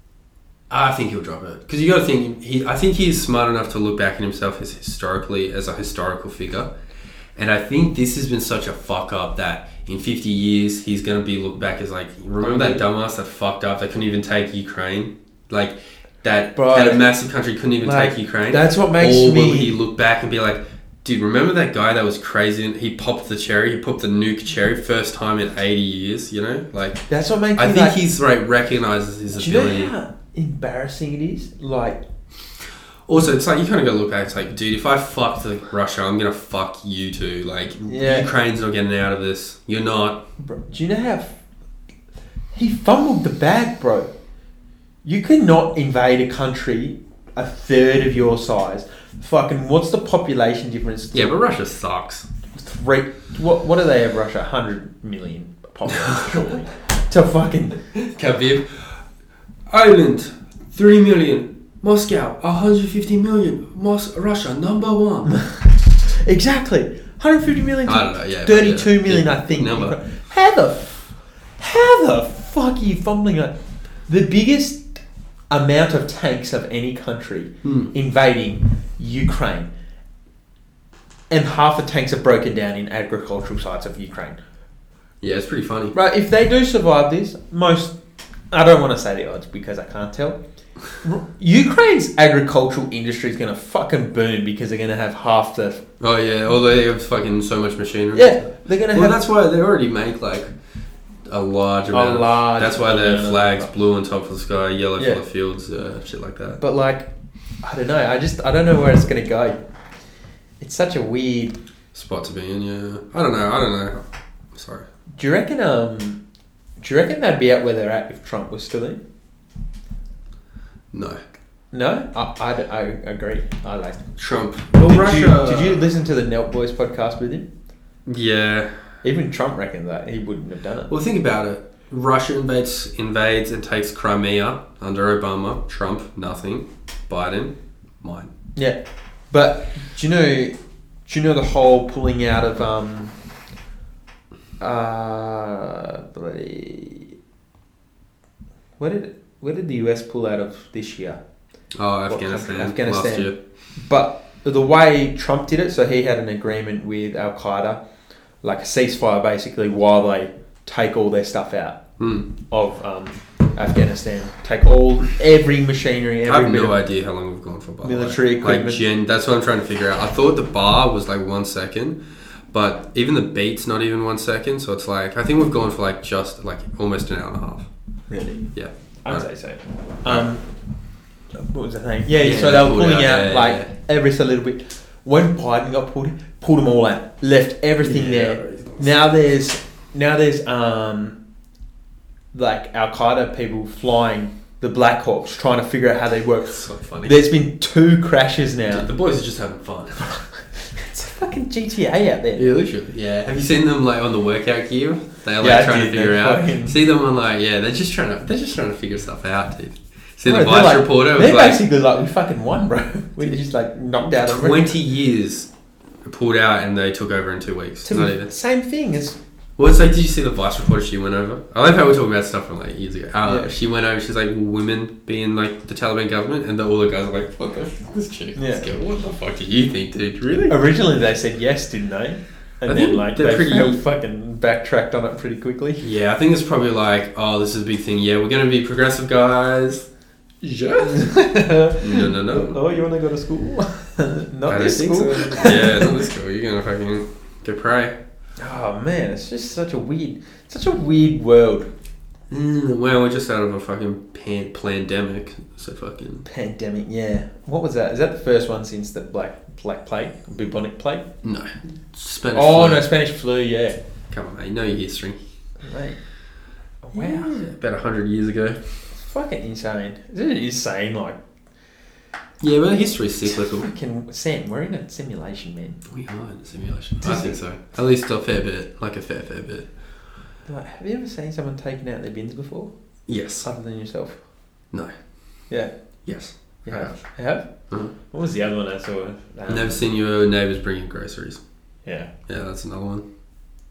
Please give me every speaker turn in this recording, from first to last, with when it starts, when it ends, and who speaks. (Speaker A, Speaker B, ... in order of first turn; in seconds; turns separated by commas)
Speaker A: 0.7-6.7, Speaker A: 7.3-29.9, Speaker B: 12.4-12.8, Speaker B: 16.5-17.0, Speaker B: 17.8-19.7, Speaker B: 27.1-28.0, Speaker B: 29.3-32.0, Speaker A: 33.1-40.2, Speaker B: 37.9-38.3, Speaker B: 40.4-41.4, Speaker B: 42.5-44.1, Speaker B: 45.0-51.4, Speaker A: 51.1-52.3, Speaker B: 52.5-57.8, Speaker A: 55.9-56.3, Speaker A: 57.9-59.0, Speaker A: 59.7-65.4, Speaker B: 65.3-73.5, Speaker A: 67.8-70.0, Speaker B: 74.1-79.7, Speaker A: 77.6-77.9, Speaker B: 81.3-84.4, Speaker A: 85.2-86.0, Speaker B: 85.9-88.0, Speaker B: 88.5-90.4, Speaker B: 91.0-95.8, Speaker A: 96.0-100.5, Speaker B: 98.1-99.2, Speaker A: 101.3-106.6, Speaker B: 101.9-103.7, Speaker B: 106.6-107.1, Speaker B: 107.6-109.6, Speaker B: 110.6-111.6, Speaker A: 111.9-114.9, Speaker B: 115.1-116.2, Speaker B: 116.8-119.0, Speaker A: 120.9-121.2, Speaker B: 121.7-124.1, Speaker A: 124.2-125.8, Speaker B: 124.7-127.5, Speaker A: 128.1-128.8, Speaker B: 129.0-130.9, Speaker A: 130.9-138.3, Speaker B: 139.3-143.1, Speaker B: 144.6-147.2, Speaker B: 148.8-151.2, Speaker A: 151.7-153.4, Speaker B: 152.1-157.8, Speaker B: 158.4-161.8, Speaker A: 162.0-162.3, Speaker B: 162.5-166.8, Speaker A: 166.2-172.0, Speaker B: 167.8-168.8, Speaker A: 172.5-177.7, Speaker B: 178.1-178.5, Speaker A: 178.5-179.3, Speaker B: 179.0-180.4, Speaker A: 180.0-180.3, Speaker B: 181.3-191.2, Speaker A: 182.2-183.7, Speaker A: 187.8-188.9, Speaker B: 192.3-198.9, Speaker A: 196.5-197.2, Speaker A: 198.7-200.2, Speaker B: 200.0-202.6, Speaker A: 202.3-211.6, Speaker B: 205.4-206.8, Speaker B: 210.2-214.8, Speaker A: 214.0-215.5, Speaker A: 216.0-218.3, Speaker B: 217.8-219.2, Speaker A: 219.6-230.6, Speaker B: 223.2-223.5, Speaker B: 228.3-228.7, Speaker B: 230.5-235.8, Speaker A: 232.7-233.8, Speaker A: 235.8-239.8, Speaker A: 240.4-241.1, Speaker B: 240.8-246.0, Speaker A: 241.8-242.6, Speaker A: 244.5-248.0, Speaker B: 248.4-251.7, Speaker A: 252.3-256.2, Speaker B: 256.2-261.1, Speaker A: 261.2-262.9, Speaker B: 262.3-263.8, Speaker A: 264.1-265.2, Speaker B: 265.6-266.0, Speaker B: 266.8-267.5, Speaker A: 266.9-268.6, Speaker B: 268.9-271.2, Speaker A: 272.4-273.7, Speaker B: 273.2-275.8, Speaker A: 275.9-279.7, Speaker B: 277.0-277.4, Speaker B: 280.4-282.7, Speaker A: 283.1-283.5, Speaker B: 283.4-284.2, Speaker A: 286.1-287.0, Speaker B: 286.6-287.5, Speaker B: 288.0-289.9, Speaker A: 289.5-291.4, Speaker B: 291.8-292.1, Speaker A: 292.3-293.0